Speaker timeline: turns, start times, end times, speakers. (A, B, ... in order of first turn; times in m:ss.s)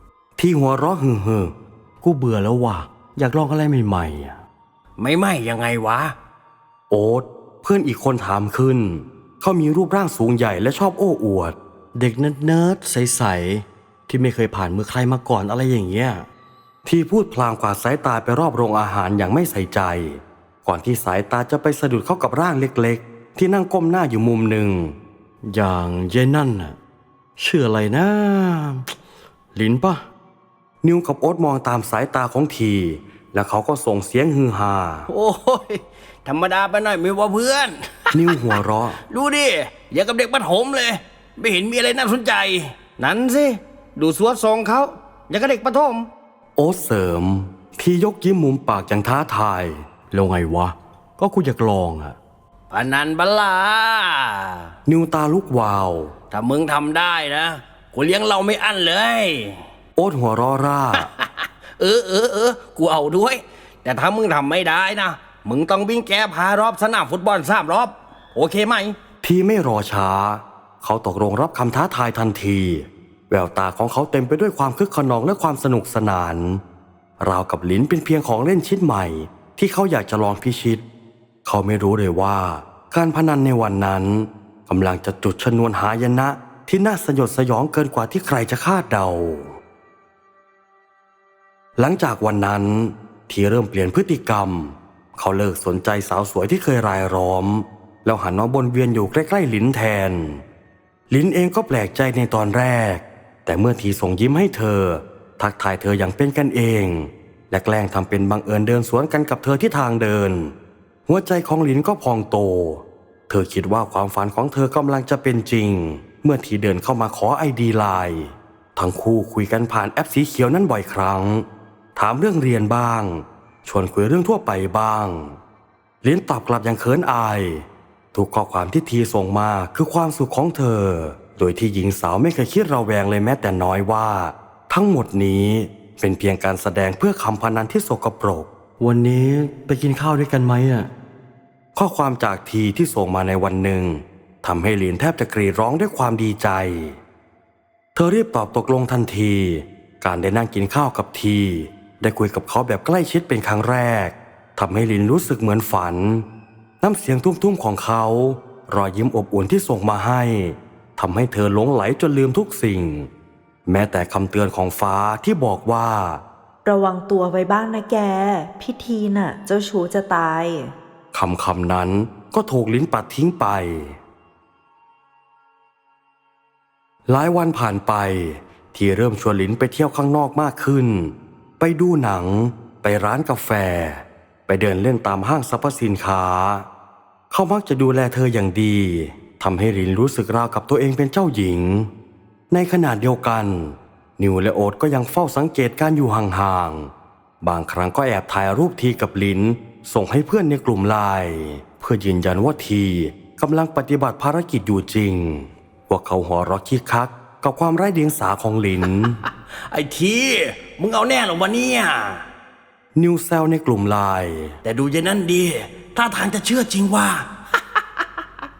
0:00.4-0:04.4 A
0:05.0-0:06.1 B
0:06.9-0:16.2 A
0:16.8-0:26.8 A
0:27.4-0:28.8 A
0:29.5-0:30.0 A
0:30.8-0:35.1 A
0:35.1-0:46.1 B
0:38.1-0:39.0 A
0:46.6-0:52.2 A
0:52.7-0:54.7 B
0:54.8-0:56.1 A
0:56.3-0:59.6 B
1:00.0-1:01.1 A
1:01.0-1:09.0 B
1:09.2-1:16.6 A
1:17.2-1:20.8 A
1:21.4-1:29.5 A
1:31.8-1:40.4 A
1:41.1-1:50.5 A
1:51.1-2:05.4 A
2:06.0-2:20.9 A
2:21.7-2:27.0 A
2:27.9-2:36.2 A
2:36.8-2:43.1 A
2:43.6-2:46.2 A
2:46.6-2:50.7 C
2:51.1-2:54.0 A
2:57.1-3:06.6 A
3:07.3-3:11.9 A
3:12.5-3:29.2 A
3:29.5-3:32.2 B
3:32.9-3:34.5 A
3:34.6-3:38.0 B